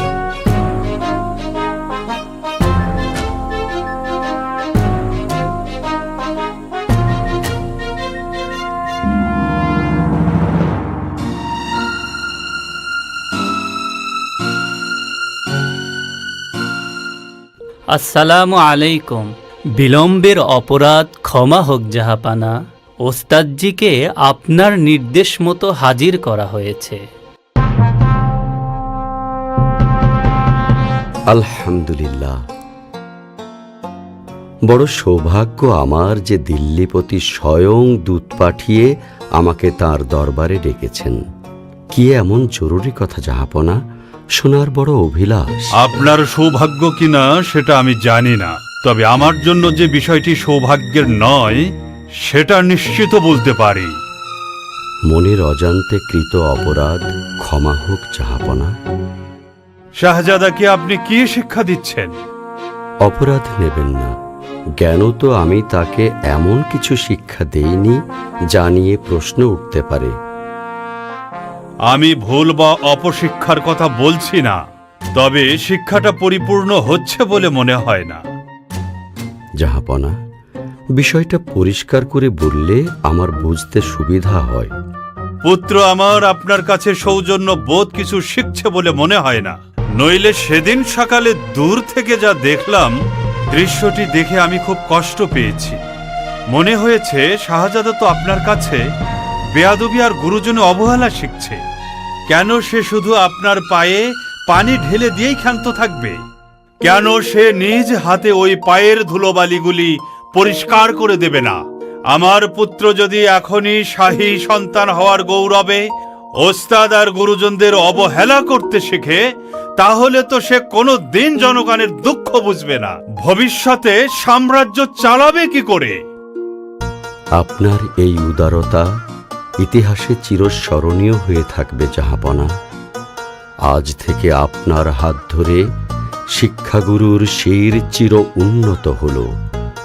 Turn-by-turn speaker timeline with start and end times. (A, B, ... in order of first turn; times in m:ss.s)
0:17.9-0:22.5 A
0:23.0-0:27.0 A
0:31.3-0:32.4 B
0:34.7-0:41.2 B
0:41.9-0:43.8 B
0:44.4-0:45.5 B
0:45.8-0:51.7 C
0:52.2-0:53.9 C
0:55.1-0:58.7 B
1:00.0-1:02.1 C
1:03.0-1:04.1 B
1:04.8-1:08.0 B
1:08.5-1:10.1 B
1:11.9-1:14.6 C
1:15.2-1:18.2 C
1:19.6-1:20.2 B
1:21.0-1:24.7 B
1:25.4-1:33.0 C
1:33.5-1:35.8 C
1:36.5-1:38.8 C
1:39.6-1:41.6 C
1:42.3-1:46.2 C
1:46.8-1:51.6 C
1:52.1-1:55.9 C
1:56.4-1:59.2 C
1:59.8-2:06.0 C
2:07.4-2:08.9 B
2:09.6-2:12.5 B
2:13.7-2:15.6 B
2:16.3-2:19.3 B